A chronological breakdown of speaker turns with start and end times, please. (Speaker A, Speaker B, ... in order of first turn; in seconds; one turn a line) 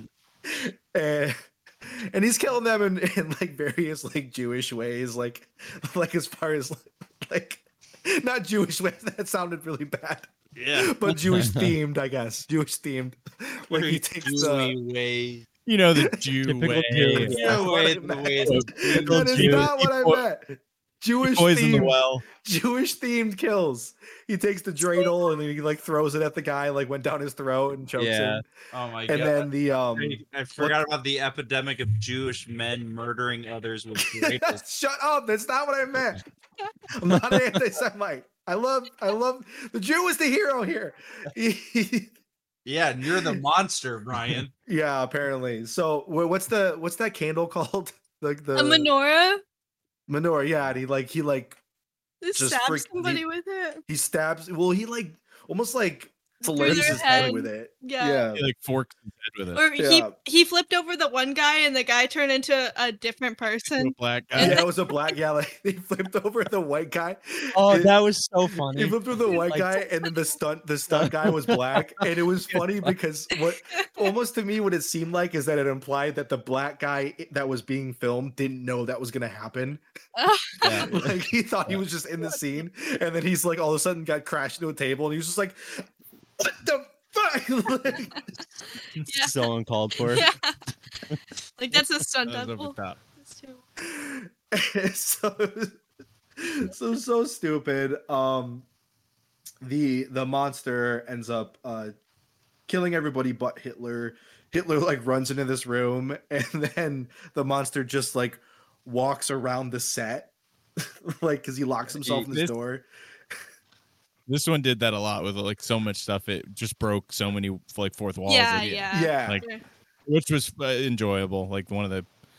Speaker A: 0.4-14.7
Speaker B: 10.6-10.9
Speaker C: 11.3-11.7
Speaker B: 13.7-15.5
Speaker D: 15.7-17.6
Speaker C: 16.4-17.6
Speaker B: 17.2-19.5
Speaker A: 17.3-28.4
Speaker D: 18.5-20.2
Speaker C: 19.1-19.7
Speaker D: 21.2-22.2
Speaker C: 28.0-28.4
Speaker B: 28.7-34.6
Speaker A: 29.1-30.7
Speaker A: 34.0-36.2
Speaker A: 36.9-42.1
Speaker B: 42.6-44.5
Speaker A: 44.6-48.9
Speaker E: 48.5-49.4
Speaker A: 50.1-51.6
Speaker E: 52.2-53.8
Speaker A: 52.3-53.2
Speaker A: 53.9-58.5
Speaker E: 56.4-58.2
Speaker D: 56.6-57.3
Speaker D: 58.3-59.6
Speaker E: 59.5-65.1
Speaker A: 59.8-60.1
Speaker D: 63.7-64.6
Speaker A: 64.3-67.9
Speaker C: 67.5-69.7
Speaker A: 68.7-79.8
Speaker E: 70.0-70.3
Speaker C: 70.9-71.8
Speaker C: 72.5-72.9
Speaker E: 80.2-80.8
Speaker C: 80.6-81.1
Speaker A: 80.8-85.8
Speaker A: 86.4-88.2
Speaker E: 89.0-89.5
Speaker C: 89.2-90.3
Speaker E: 90.0-90.6
Speaker E: 91.6-93.6
Speaker D: 92.3-93.0
Speaker A: 93.8-95.8
Speaker A: 96.4-98.7
Speaker A: 99.6-101.9
Speaker A: 102.7-113.4
Speaker D: 112.0-112.5
Speaker D: 114.3-119.5
Speaker E: 118.2-119.6
Speaker A: 118.9-119.4
Speaker D: 120.1-122.1